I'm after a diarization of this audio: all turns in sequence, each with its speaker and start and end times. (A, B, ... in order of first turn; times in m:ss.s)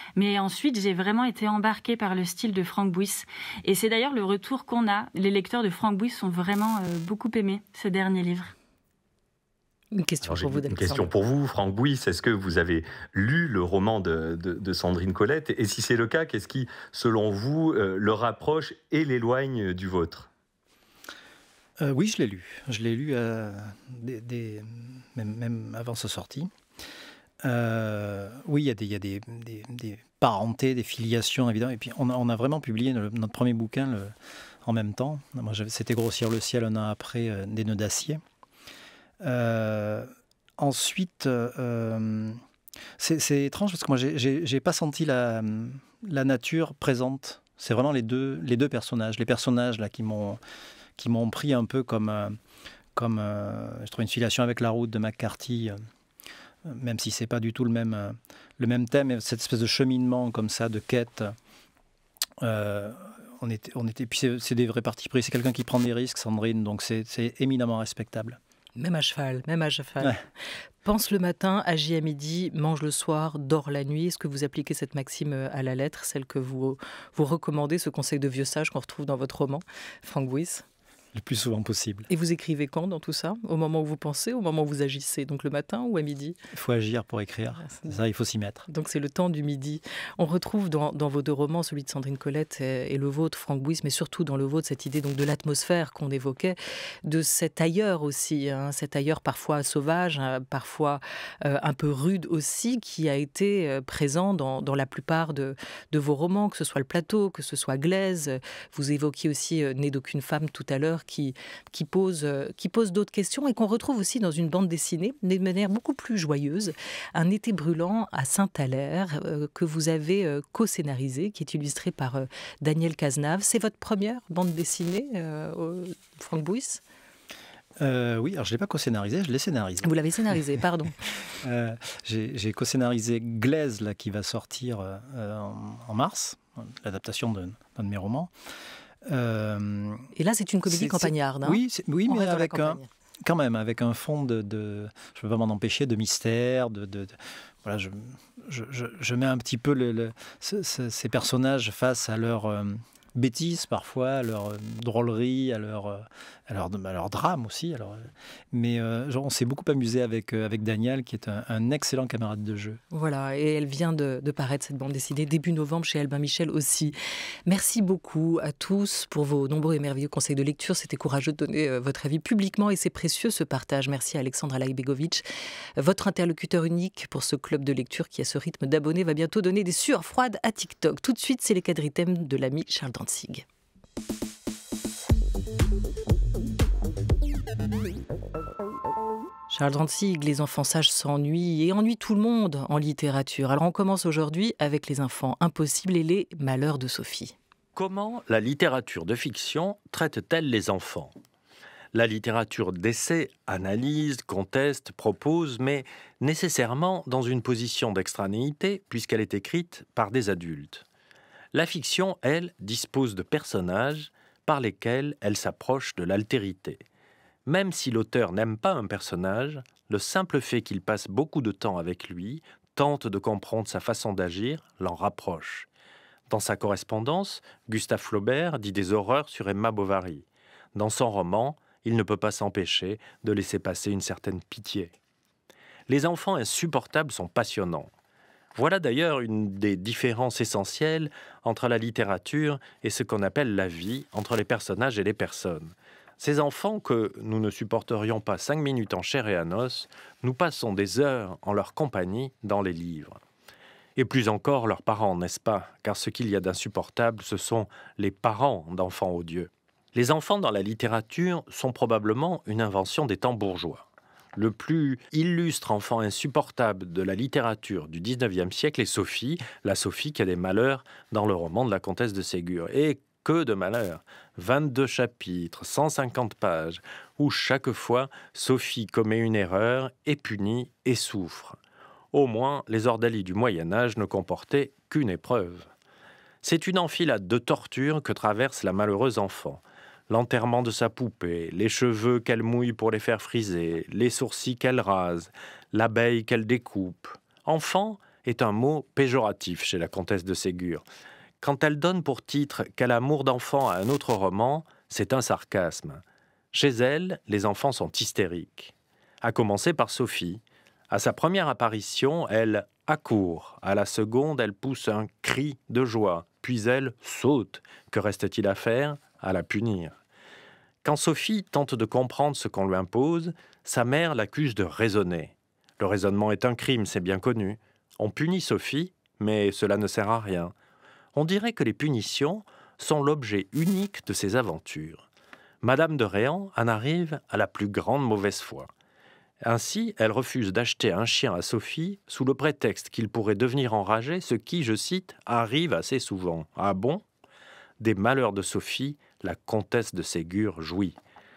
0:00.2-0:08.5 A
0:09.9-0:11.1 B
0:10.2-0:20.3 C
0:21.8-0:26.5 D
0:27.4-0:38.2 D
0:39.2-0:42.4 D
0:43.0-0:50.4 D
0:51.0-0:52.4 D
0:52.9-0:55.8 D
0:56.6-1:01.3 D
1:02.4-1:08.4 D
1:08.8-1:10.2 B
1:10.8-1:20.6 B
1:21.1-1:22.1 D
1:22.1-1:26.4 B
1:26.5-1:28.6 D
1:28.7-2:06.8 B
2:07.8-2:10.6 D
2:09.8-2:10.9 B
2:11.2-2:18.3 D
2:19.0-2:20.1 D
2:20.1-2:22.9 B
2:20.6-2:42.8 D
2:42.9-2:46.9 B
2:47.4-2:55.2 B
2:55.8-3:03.4 B
3:09.5-3:17.3 B
3:17.7-3:21.1 E
3:21.9-3:30.8 E
3:31.5-3:36.8 E
3:37.4-3:45.7 E
3:46.3-3:54.9 E
3:55.9-3:57.9 E
3:58.5-4:13.2 E
4:14.0-4:41.6 E
4:42.1-4:45.7 E
4:46.4-5:00.8 E
5:01.4-5:06.0 E
5:06.5-5:19.9 E
5:20.8-5:30.5 E
5:31.1-5:35.0 E
5:35.6-5:38.7 E
5:39.4-5:47.0 E
5:47.8-5:51.0 E